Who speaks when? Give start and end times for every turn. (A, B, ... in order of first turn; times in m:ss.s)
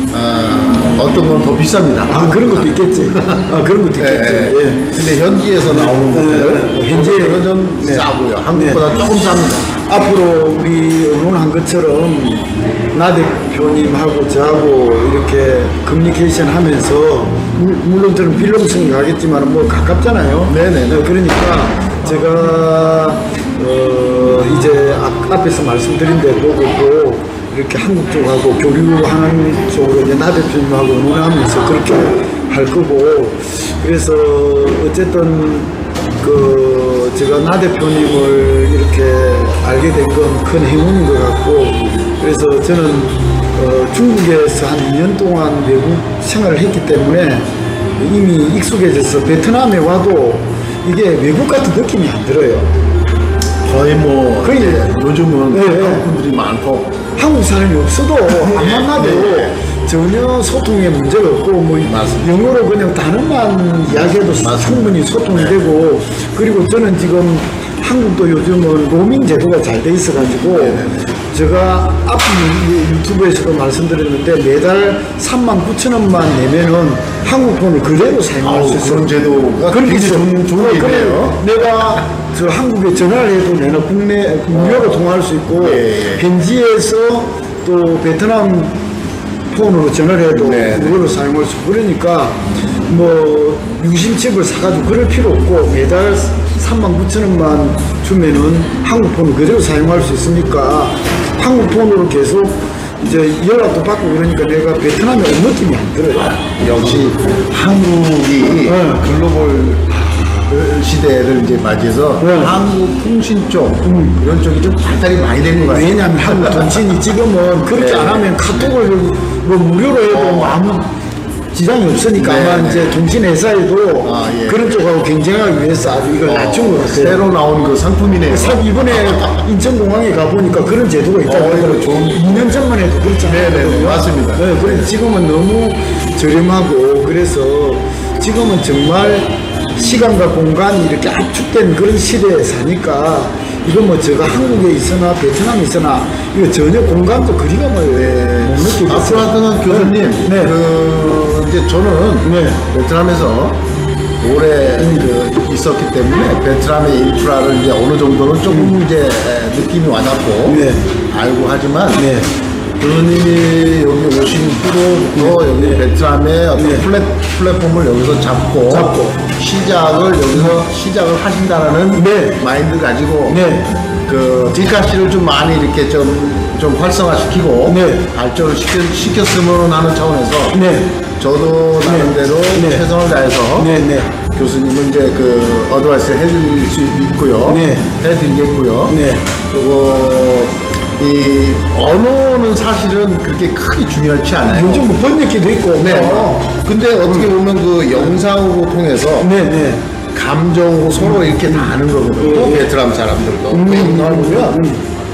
0:00.1-0:09.7 A
0:02.1-0:04.9 B
0:05.7-0:08.8 B
0:09.9-0:47.4 B
0:20.5-0:21.1 A
0:48.0-0:52.7 B
0:53.6-0:57.0 A
0:54.4-0:54.8 B
0:55.5-0:56.0 B
0:57.1-1:19.1 B
0:58.3-0:59.6 A
1:01.8-1:02.3 A
1:04.0-1:05.6 A
1:10.5-1:11.1 A
1:18.4-1:21.4 A
1:19.7-1:28.8 B
1:24.5-1:25.0 A
1:25.6-1:26.3 A
1:29.5-1:46.4 B
1:30.3-1:31.0 A
1:46.3-1:56.8 A
1:48.6-1:49.0 B
1:50.0-1:50.5 B
1:52.2-1:52.5 B
1:53.9-1:54.1 B
1:55.7-2:00.9 B
1:57.7-1:58.7 A
2:00.1-2:00.7 A
2:01.5-2:07.3 B
2:02.1-2:02.9 A
2:04.0-2:04.7 A
2:06.2-2:09.4 A
2:08.3-2:30.5 B
2:11.2-2:12.6 A
2:13.2-2:14.9 A
2:27.9-2:33.6 A
2:32.2-2:32.6 B
2:34.2-2:42.1 A
2:38.5-2:38.7 B
2:40.5-2:40.9 B
2:42.0-2:42.3 B
2:42.8-3:03.7 A
2:45.2-2:45.8 B
2:46.6-2:46.8 B
2:48.7-2:49.2 B
2:51.9-2:52.4 B
2:53.3-2:53.7 B
2:57.7-2:58.0 B
3:00.5-3:00.9 B
3:01.8-3:02.8 B
3:03.6-3:04.1 B
3:04.3-3:14.9 A
3:07.4-3:07.9 B
3:08.9-3:09.2 B
3:14.5-3:16.5 B
3:15.7-3:19.3 A
3:19.2-3:19.8 B
3:20.1-3:24.6 A
3:22.2-3:22.7 B
3:23.5-3:24.8 B